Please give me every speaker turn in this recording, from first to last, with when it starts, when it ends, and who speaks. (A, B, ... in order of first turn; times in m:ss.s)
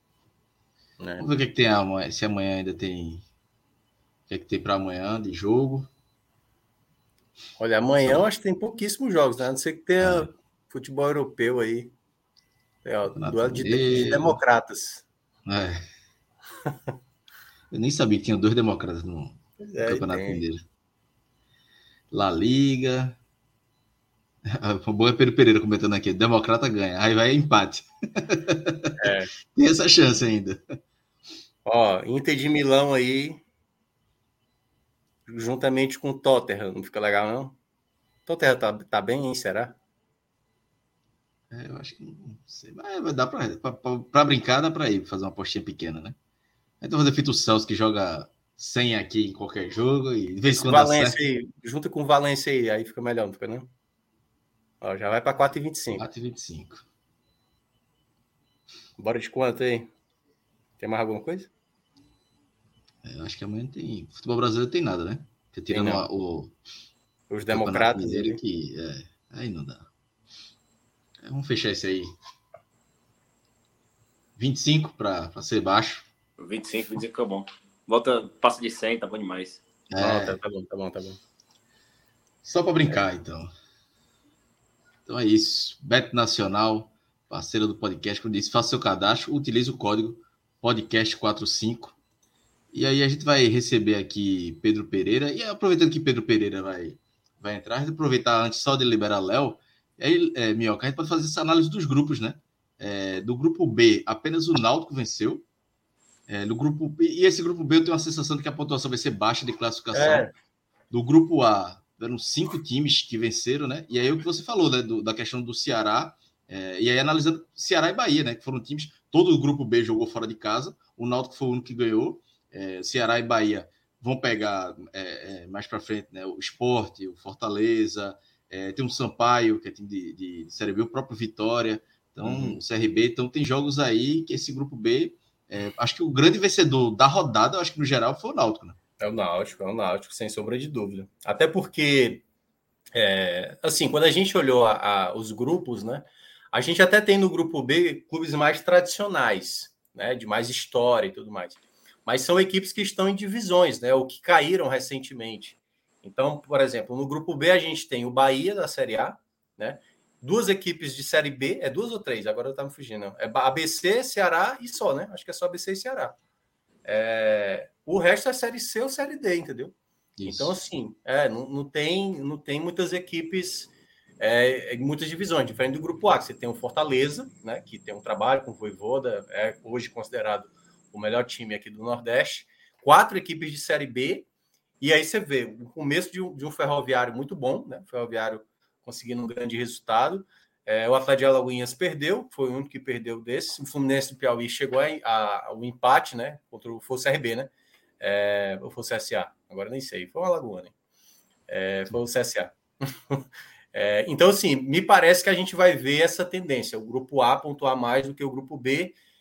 0:01.0-0:01.3 A
0:01.2-0:03.2 B
0:04.3-0:05.9 B
0:07.6-0:11.9 A
0:10.0-0:10.3 B
0:12.8-0:15.0 A
0:13.1-0:14.4 B
0:15.5-0:15.9 B
0:17.7-0:20.6 B
0:19.6-0:20.4 A
0:22.1-0:23.2 B
0:24.5-0:30.8 B
0:29.0-0:29.3 A
0:31.6-0:33.4 A
0:35.3-0:37.6 A
0:38.3-0:39.8 A
0:41.5-0:46.2 B
0:46.8-0:51.2 B
0:50.5-0:53.7 A
0:54.8-0:56.1 A
0:56.0-0:56.8 B
0:59.0-0:59.9 A
1:00.8-1:01.5 A
1:03.0-1:06.5 B
1:05.7-1:06.1 A
1:07.3-1:08.4 A
1:07.5-1:09.9 B
1:11.2-1:12.2 B
1:14.4-1:16.1 B
1:16.4-1:19.6 C
1:19.9-1:20.4 B
1:20.0-1:21.2 A
1:22.4-1:23.5 B
1:25.1-1:32.0 B
1:32.7-1:45.4 B
1:46.3-1:50.3 B
1:49.9-1:50.3 A
1:50.9-2:18.8 B
2:12.2-2:12.6 A
2:19.0-2:22.2 A
2:23.0-2:46.2 A
2:46.8-2:49.8 A
2:50.2-2:50.5 B
2:50.3-3:04.3 A
3:04.8-3:20.7 A
3:21.5-3:22.6 A
3:23.7-3:29.0 A